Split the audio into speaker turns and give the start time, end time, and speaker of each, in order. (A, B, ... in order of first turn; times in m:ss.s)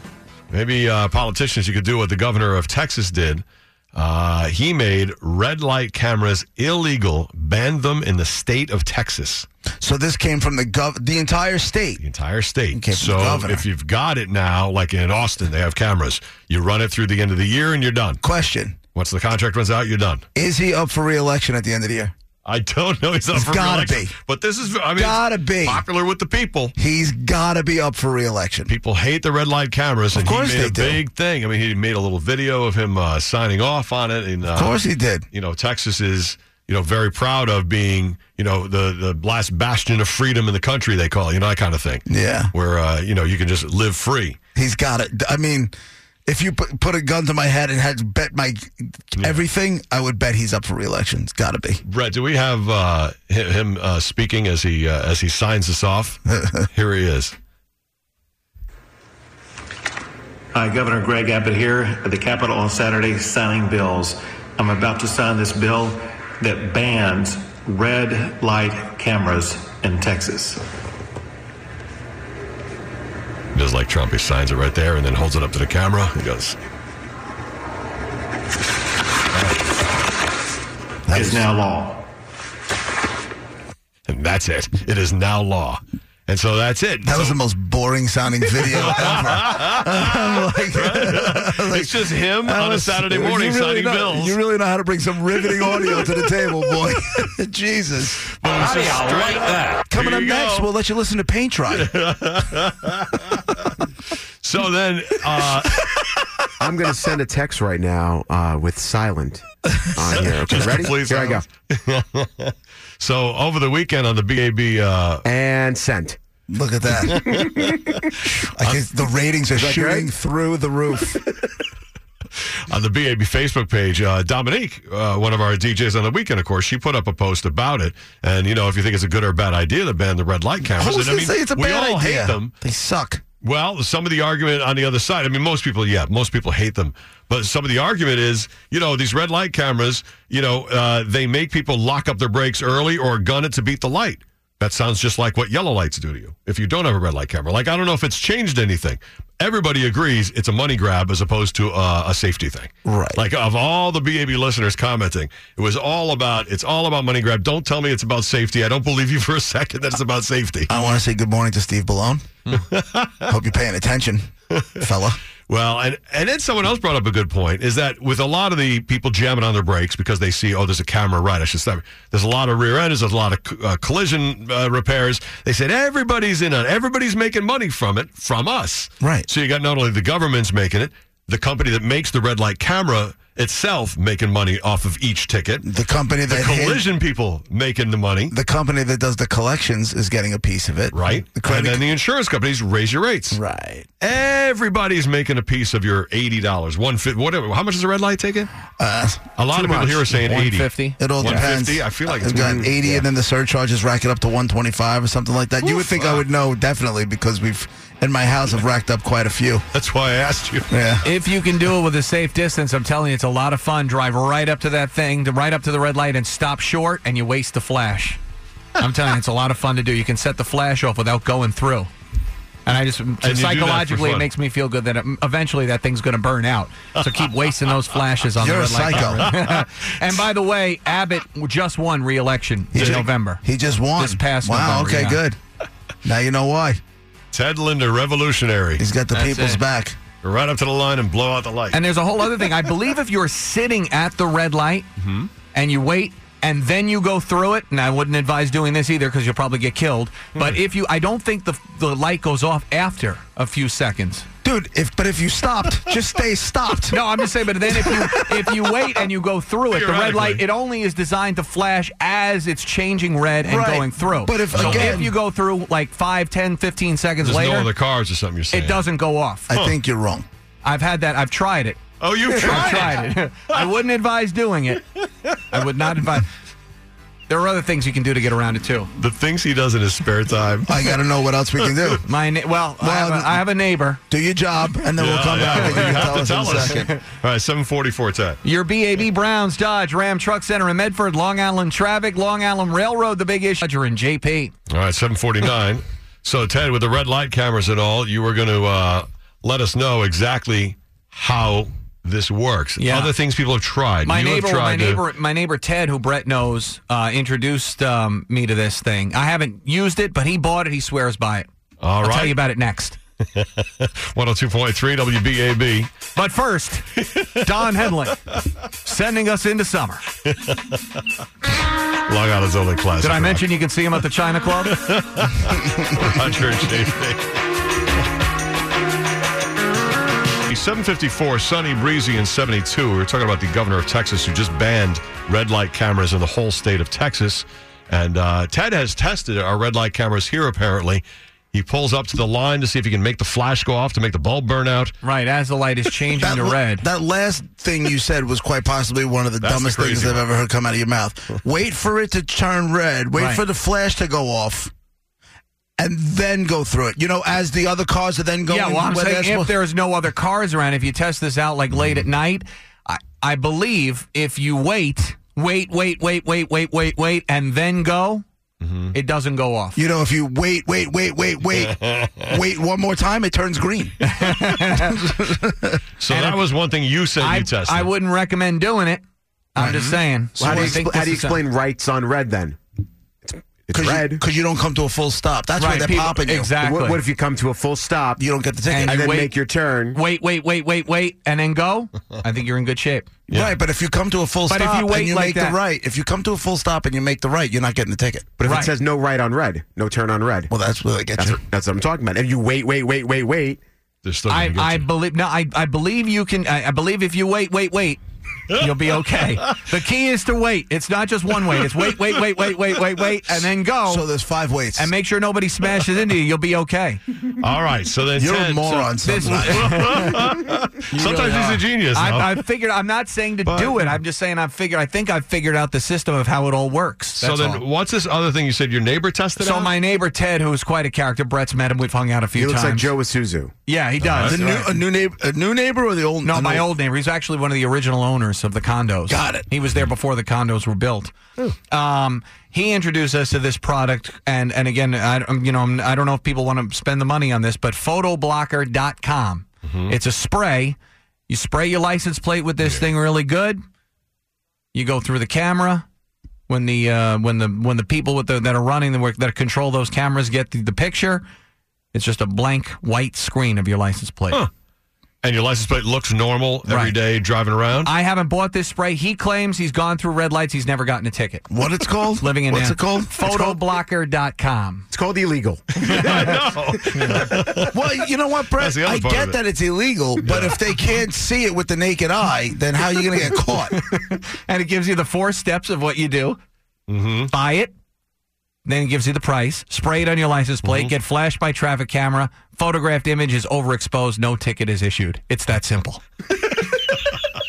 0:00.5-0:09.5 A
0:09.8-0:12.0 B
0:12.0-0:18.2 A
0:12.7-0:13.6 B
0:18.2-0:18.8 B
0:19.0-0:20.2 A
0:20.3-0:22.1 B
0:22.4-0:26.7 A
0:23.3-0:24.1 B
0:25.0-0:25.8 B
0:26.8-0:28.7 B
0:28.7-0:44.4 A
0:30.1-0:31.0 B
0:34.5-0:35.2 B
0:42.1-0:42.5 B
0:44.5-0:45.7 B
0:46.3-0:51.8 B
0:49.2-0:49.4 A
0:51.8-0:56.2 A
0:56.3-0:56.7 B
0:56.7-0:57.3 A
1:00.5-1:10.7 C
1:13.5-1:16.6 A
1:19.3-1:19.7 A
1:21.1-1:21.5 B
1:21.2-1:22.0 C
1:24.1-1:27.4 A
1:27.0-1:38.2 B
1:28.6-1:34.4 A
1:38.3-1:40.7 A
1:39.9-1:42.0 B
1:41.7-1:43.8 A
1:44.4-1:46.3 A
1:46.6-1:51.4 D
1:50.0-1:55.2 A
1:55.2-1:56.2 D
1:56.5-1:57.4 B
1:57.1-1:58.0 A
1:58.2-2:01.2 B
1:59.6-2:00.1 D
2:02.7-2:12.5 A
2:10.6-2:13.2 B
2:13.4-2:40.7 A
2:32.8-2:33.2 B
2:40.7-2:42.2 B
2:42.5-2:43.3 A
2:43.2-2:45.2 B
2:44.5-2:44.8 A
2:45.5-3:05.7 A
2:59.0-2:59.3 B
3:05.6-3:06.8 B
3:06.3-3:08.3 A
3:08.3-3:11.8 B
3:10.9-3:13.4 A
3:13.3-3:13.9 B
3:14.0-3:18.5 A
3:18.8-3:19.3 B
3:19.4-3:23.0 A
3:19.6-3:21.0 E
3:21.0-3:29.7 B
3:22.2-3:22.7 D
3:25.6-3:26.2 A
3:29.7-3:30.9 A
3:30.7-3:31.0 B
3:31.0-3:38.2 E
3:38.8-3:41.9 E
3:42.7-3:53.4 E
3:43.2-3:44.3 A
3:48.4-3:49.4 B
3:49.4-3:49.6 A
3:52.7-3:55.4 B
3:52.8-3:53.1 A
3:54.0-3:55.2 E
3:56.0-3:56.8 B
3:57.3-3:58.8 A
3:58.8-4:00.0 B
3:59.1-3:59.6 E
4:00.2-4:01.8 A
4:01.7-4:04.9 E
4:05.0-4:05.3 A
4:05.5-4:14.2 E
4:14.4-4:18.8 B
4:16.9-4:27.7 E
4:19.7-4:20.4 A
4:23.4-4:25.1 B
4:24.5-4:25.1 A
4:27.2-4:28.9 A
4:28.5-4:29.5 E
4:29.5-4:30.2 B
4:29.5-4:29.8 A
4:30.6-4:34.8 E
4:32.0-4:33.1 A
4:35.5-4:36.3 E
4:37.3-4:38.9 E
4:39.0-4:41.0 A
4:40.6-4:42.0 B
4:41.6-4:42.0 A
4:42.0-4:44.0 E
4:42.8-4:43.4 B
4:44.1-4:46.9 B
4:45.0-4:48.4 A
4:48.4-4:54.5 E
4:54.7-5:05.0 A
5:02.8-5:03.1 E
5:04.0-5:11.5 E
5:11.8-5:12.4 A
5:12.0-5:13.0 E
5:13.3-5:15.9 A
5:16.1-5:18.2 E
5:17.1-5:17.4 A
5:18.8-5:20.0 E
5:20.2-5:20.8 A
5:22.1-5:23.5 A
5:23.0-5:24.8 E
5:24.6-5:27.4 A
5:25.5-5:26.2 B
5:30.5-5:44.9 A
5:45.0-5:46.9 E
5:46.2-5:54.7 B
5:49.4-5:50.2 A
5:53.1-5:53.4 E
5:55.8-5:59.5 B
5:58.5-6:08.2 E
6:08.6-6:08.9 A
6:08.9-6:09.8 E
6:09.8-6:15.8 B
6:11.6-6:12.1 A
6:14.0-6:15.1 E
6:16.0-6:17.9 A
6:16.1-6:16.4 E
6:17.2-6:19.0 E
6:19.5-6:21.4 E
6:19.6-6:20.8 B
6:20.4-6:22.6 D
6:23.2-6:24.2 D
6:23.7-6:26.5 B
6:25.6-6:27.0 E
6:26.6-6:28.2 D
6:28.2-6:29.0 B
6:28.7-6:29.4 E
6:28.9-6:30.0 D
6:29.9-6:33.1 E
6:33.3-6:38.3 B
6:33.3-6:33.6 A
6:34.5-6:35.6 E
6:38.4-6:40.5 D
6:38.4-6:38.7 E
6:40.5-6:41.4 B
6:41.2-6:43.6 D
6:44.0-6:44.9 A
6:44.3-6:54.1 E
6:53.9-6:54.9 B
6:54.8-6:57.0 E
6:57.3-7:02.4 A
6:58.2-6:59.9 B
6:59.0-7:00.1 E
7:00.9-7:07.6 E
7:03.4-7:03.8 A
7:07.2-7:09.8 A
7:09.4-7:12.9 E
7:12.4-7:13.5 D
7:13.6-7:14.5 E
7:14.0-7:14.4 A
7:14.2-7:16.7 B
7:14.3-7:14.7 D
7:16.2-7:21.1 E
7:19.1-7:19.5 B
7:21.7-7:30.8 E
7:29.6-7:29.9 A
7:31.3-7:33.6 E
7:34.7-7:35.9 E
7:36.5-7:41.2 E
7:41.9-7:44.4 E
7:45.2-7:47.9 A
7:46.7-7:47.0 E
7:47.8-7:51.5 E
7:51.5-7:53.6 B
7:52.2-7:54.9 E
7:54.9-7:55.9 D
7:55.7-7:57.8 A
7:55.8-7:56.4 E
7:57.6-8:03.8 B
7:58.5-7:59.4 A
8:00.2-8:00.6 A
8:03.7-8:06.4 E
8:06.9-8:07.3 A
8:07.3-8:07.7 E
8:08.6-8:16.0 E
8:10.6-8:10.9 A
8:16.5-8:17.2 A